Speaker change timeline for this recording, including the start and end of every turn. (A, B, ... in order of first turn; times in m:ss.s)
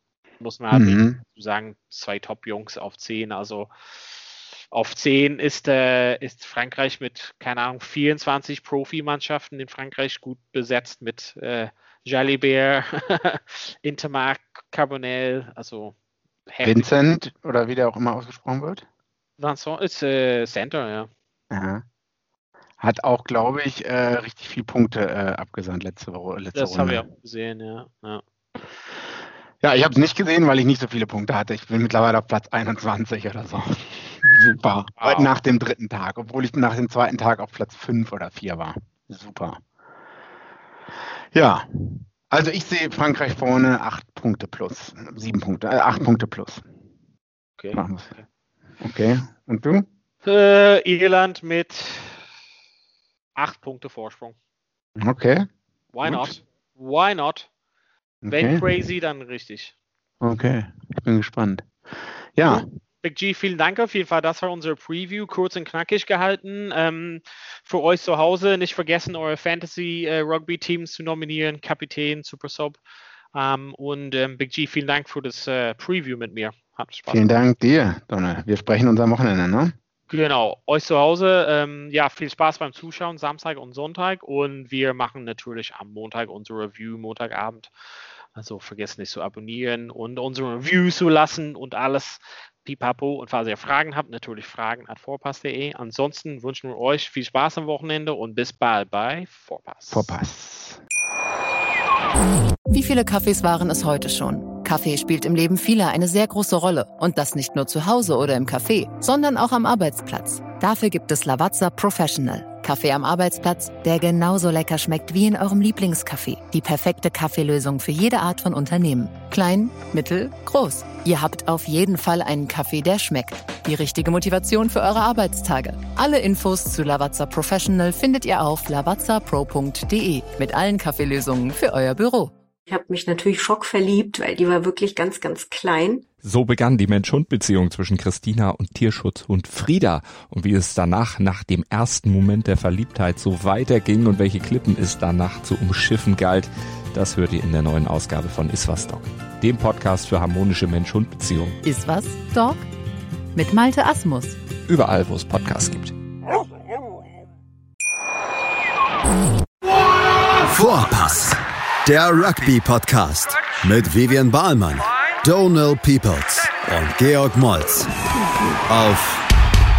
0:00.4-0:15.9 A
0:00.7-0:01.2 B
0:16.5-0:16.9 A
0:16.6-0:18.8 B
0:19.4-0:21.1 A
0:21.5-0:21.8 B
0:22.8-0:27.0 B
0:26.5-0:28.2 A
0:29.6-0:39.6 B
0:35.0-0:35.3 A
0:41.3-0:46.6 B
0:47.6-0:48.2 A
0:47.7-0:48.1 B
0:48.8-0:49.8 B
0:50.2-0:52.2 A
0:53.4-0:54.4 A
0:55.0-0:55.5 B
0:55.9-0:57.5 A
0:56.0-0:56.4 B
0:58.2-0:58.6 B
0:58.3-0:59.7 A
1:00.2-1:01.8 B
1:02.3-1:02.6 B
1:02.5-1:12.8 A
1:13.3-1:17.3 A
1:17.1-1:19.7 B
1:20.1-1:27.7 A
1:28.3-1:40.1 A
1:39.9-1:40.8 B
1:42.7-2:12.3 C
2:12.7-2:16.1 D
2:16.2-2:31.6 E
2:31.6-2:32.6 C
2:33.3-2:34.4 C
2:34.6-2:35.9 E
2:40.5-2:47.9 F
2:48.7-2:49.2 F